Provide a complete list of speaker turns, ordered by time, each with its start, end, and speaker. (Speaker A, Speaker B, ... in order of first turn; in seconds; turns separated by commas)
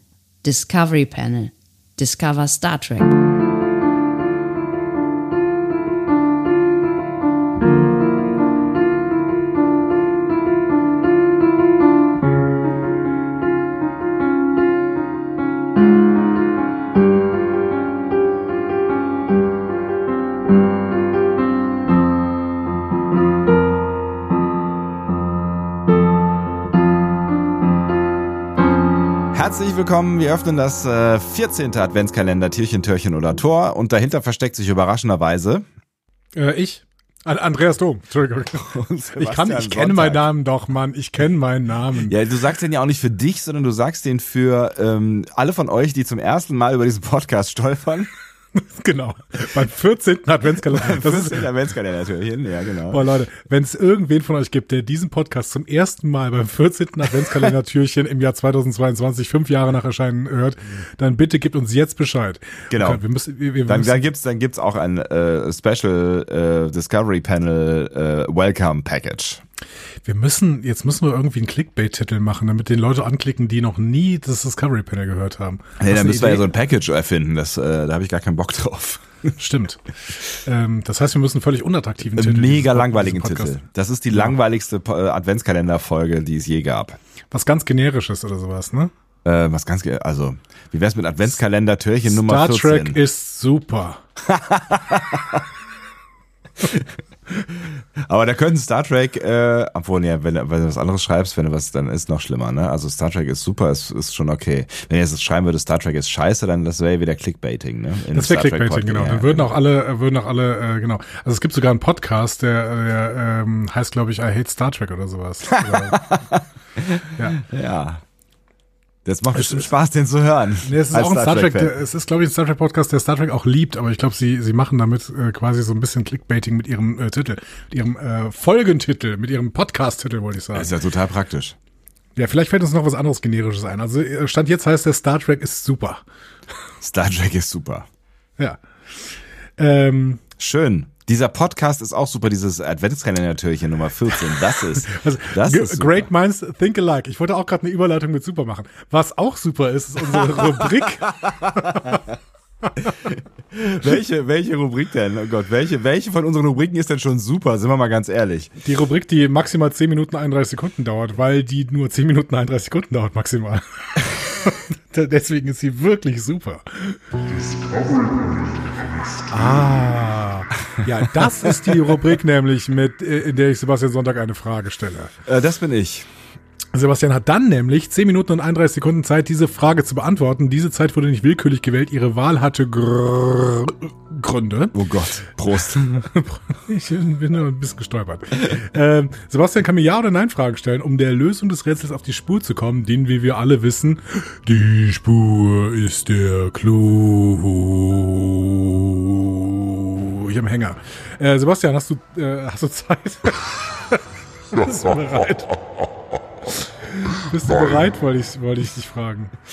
Speaker A: 0.4-3.1, Speaker B: 29.3-35.6, Speaker C: 36.3-42.2, Speaker B: 38.5-40.3, Speaker B: 42.0-48.1, Speaker C: 48.6-51.5, Speaker B: 50.7-53.1, Speaker C: 52.9-64.0, Speaker B: 62.7-63.0, Speaker B: 63.6-69.4, Speaker C: 70.0-76.5, Speaker B: 75.8-79.0, Speaker C: 79.4-83.6, Speaker B: 82.1-87.0, Speaker C: 87.3-88.9, Speaker B: 89.2-93.0, Speaker C: 92.0-94.0, Speaker B: 94.3-95.4, Speaker B: 97.6-109.6, Speaker C: 108.1-116.1, Speaker B: 115.6-118.0, Speaker B: 119.0-121.8, Speaker C: 119.3-119.7, Speaker C: 120.6-130.8, Speaker B: 130.5-131.6, Speaker C: 132.2-136.0, Speaker B: 136.8-137.8, Speaker C: 139.6-140.2, Speaker B: 140.4-146.1, Speaker C: 144.6-152.0, Speaker B: 153.5-158.5, Speaker C: 158.6-167.3, Speaker B: 167.6-168.7, Speaker C: 169.3-175.1, Speaker B: 171.6-171.9, Speaker B: 175.2-176.1, Speaker C: 176.7-184.8, Speaker B: 184.7-186.1, Speaker C: 185.9-204.0, Speaker C: 204.5-205.6, Speaker C: 206.9-209.3